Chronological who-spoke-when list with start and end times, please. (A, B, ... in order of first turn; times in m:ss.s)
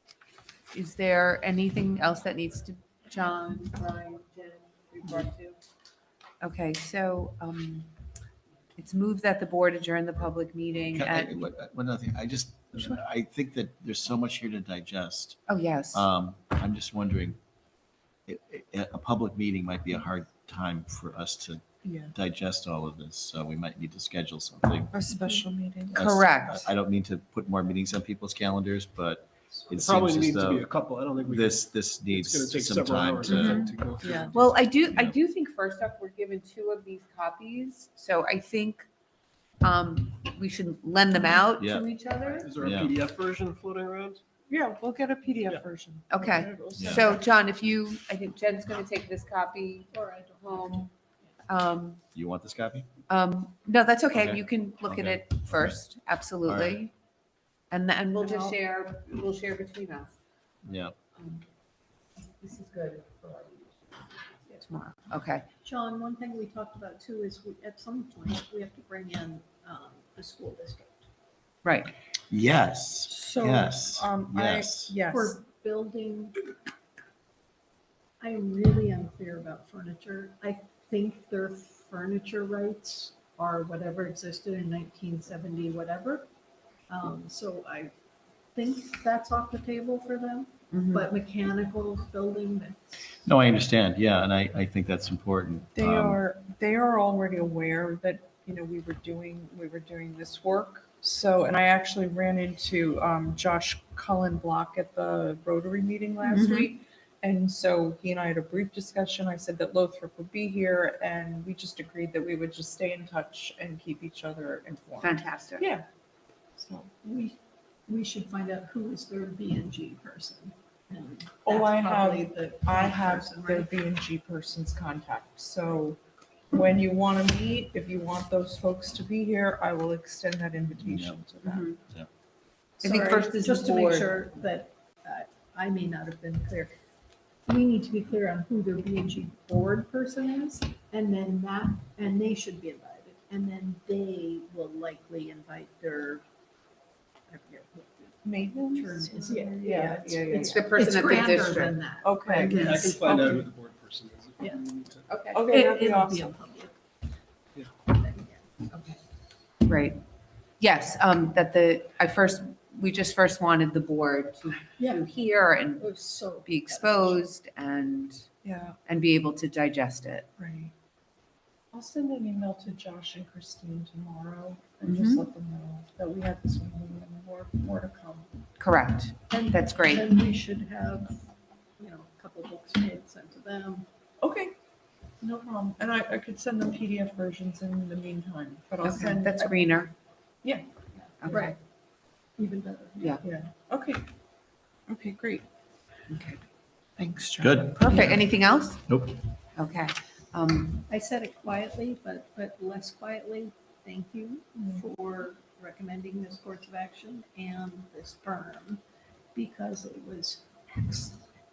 0:00.7-0:05.6 A
0:06.4-0:07.9 A
0:08.8-0:11.4 A
0:10.9-0:17.4 B
0:15.5-0:16.1 A
0:18.3-0:24.9 B
0:21.8-0:22.1 C
0:24.9-0:26.0 C
0:25.1-0:25.4 D
0:25.9-0:26.7 A
0:25.9-0:30.7 B
0:29.7-0:34.5 E
0:31.2-0:33.7 B
0:33.3-0:33.7 A
0:34.0-0:34.3 C
0:34.3-0:38.9 A
0:39.6-0:42.5 A
0:41.6-0:41.8 B
0:42.4-0:44.2 E
0:42.6-0:42.9 B
0:44.5-0:46.8 C
0:46.1-0:50.9 A
0:46.5-0:47.2 D
0:46.8-0:47.0 B
0:49.9-0:50.9 D
0:51.5-0:52.0 A
0:52.2-0:52.9 B
0:53.1-0:56.9 A
0:54.1-0:55.8 B
0:56.4-0:56.8 B
0:57.7-1:00.2 A
0:58.2-0:58.6 D
1:00.6-1:01.0 B
1:01.2-1:01.4 A
1:02.2-1:03.8 A
1:04.5-1:05.5 A
1:05.6-1:11.0 D
1:11.6-1:11.9 A
1:12.3-1:14.9 B
1:13.3-1:15.4 C
1:15.1-1:16.4 D
1:18.2-1:26.3 D
1:26.9-1:27.9 D
1:28.6-1:33.2 D
1:30.7-1:31.1 A
1:33.2-1:36.2 B
1:35.8-1:55.8 C
1:46.3-1:46.7 A
1:55.0-1:55.7 A
1:56.6-1:57.1 C
1:57.9-2:03.7 D
2:01.5-2:06.0 C
2:06.5-2:11.7 C
2:10.9-2:11.2 B
2:11.4-2:11.8 A
2:12.8-2:16.8 D
2:12.8-2:14.2 A
2:17.5-2:26.2 D
2:27.3-2:33.4 D
2:28.2-2:30.6 C
2:30.3-2:31.8 A
2:32.0-2:33.5 C
2:32.3-2:35.1 E
2:35.1-2:35.4 A
2:35.3-2:36.3 C
2:35.4-2:36.8 D
2:37.9-2:38.5 D
2:38.7-2:39.0 A
2:39.6-2:40.0 A
2:40.6-2:48.3 A
2:44.8-2:45.1 D
2:45.8-2:47.2 D
2:48.4-2:48.8 C
2:48.9-2:50.3 A
2:50.4-2:50.7 C
2:51.7-2:58.3 C
2:54.8-2:55.2 A
2:58.6-3:00.1 A
2:59.3-3:01.3 D
3:01.8-3:03.9 D
3:04.2-3:04.5 C
3:05.2-3:09.5 C
3:08.8-3:09.9 A
3:11.0-3:11.6 D
3:11.2-3:11.6 A
3:12.4-3:13.2 D
3:13.2-3:14.0 C
3:14.9-3:15.4 C
3:16.1-3:16.4 A
3:17.0-3:17.8 C
3:17.4-3:18.3 B
3:17.8-3:18.9 A
3:18.9-3:19.2 B
3:19.6-3:20.9 A
3:20.9-3:28.8 D
3:29.3-3:31.2 D